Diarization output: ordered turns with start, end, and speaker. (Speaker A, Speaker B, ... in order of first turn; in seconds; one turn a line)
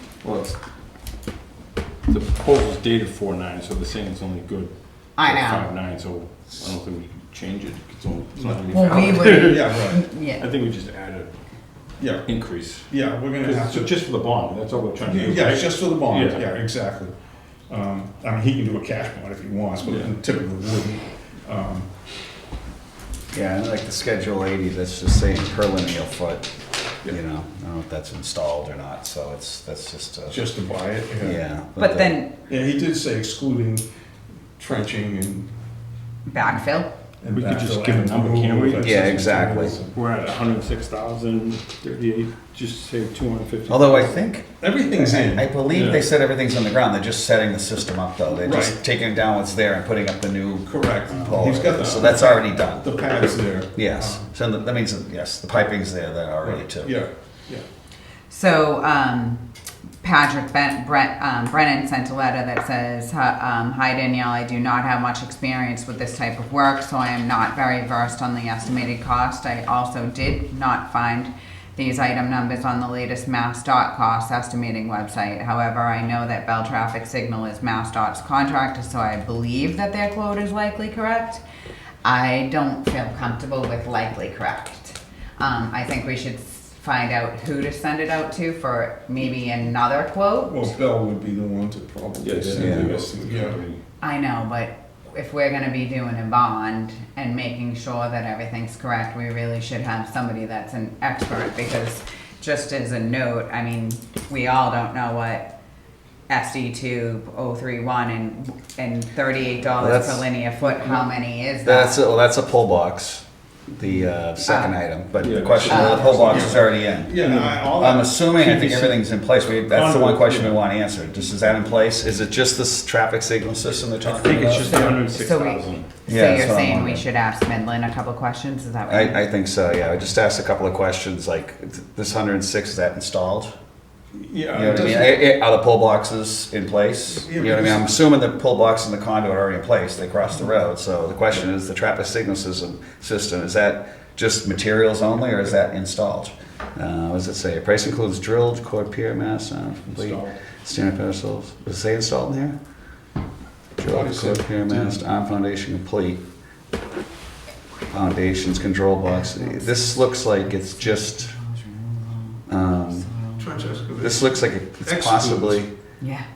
Speaker A: 0.2-0.6
Speaker A: 2.1-11.4
Speaker B: 5.2-5.7
Speaker C: 8.4-10.0
Speaker B: 8.7-10.4
Speaker C: 12.0-14.0
Speaker A: 12.2-16.5
Speaker C: 15.0-17.1
Speaker C: 17.7-21.9
Speaker A: 19.8-20.1
Speaker D: 23.3-26.5
Speaker D: 27.0-30.4
Speaker C: 30.3-31.4
Speaker D: 31.2-32.2
Speaker B: 31.8-32.3
Speaker C: 32.5-33.9
Speaker C: 34.6-35.5
Speaker B: 36.3-36.9
Speaker C: 37.2-40.0
Speaker A: 37.3-44.1
Speaker D: 38.8-39.8
Speaker D: 43.7-56.9
Speaker C: 44.6-45.6
Speaker A: 45.7-46.0
Speaker C: 48.4-48.8
Speaker C: 50.6-54.3
Speaker C: 56.4-57.6
Speaker B: 58.3-59.5
Speaker B: 60.0-81.4
Speaker B: 82.0-90.7
Speaker C: 90.5-93.6
Speaker A: 92.2-93.8
Speaker D: 92.5-92.9
Speaker B: 94.0-105.5
Speaker B: 106.3-112.0
Speaker D: 109.8-110.3
Speaker D: 111.6-125.0
Speaker B: 114.4-114.7
Speaker A: 115.2-116.6
Speaker B: 115.7-116.5
Speaker C: 115.7-119.0
Speaker A: 117.2-117.6
Speaker A: 119.7-120.6
Speaker A: 124.0-125.9
Speaker C: 124.6-125.0
Speaker B: 125.1-129.2
Speaker D: 126.1-127.0
Speaker D: 128.9-133.5
Speaker C: 134.1-135.2
Speaker D: 134.5-152.6
Speaker C: 137.1-137.8
Speaker A: 149.9-150.3
Speaker D: 153.8-156.2
Speaker C: 153.8-155.0
Speaker D: 157.9-161.3
Speaker B: 159.1-160.2
Speaker B: 160.8-162.4
Speaker D: 162.5-163.1
Speaker B: 163.0-163.9
Speaker C: 163.4-165.7
Speaker D: 164.0-165.7
Speaker B: 166.0-166.3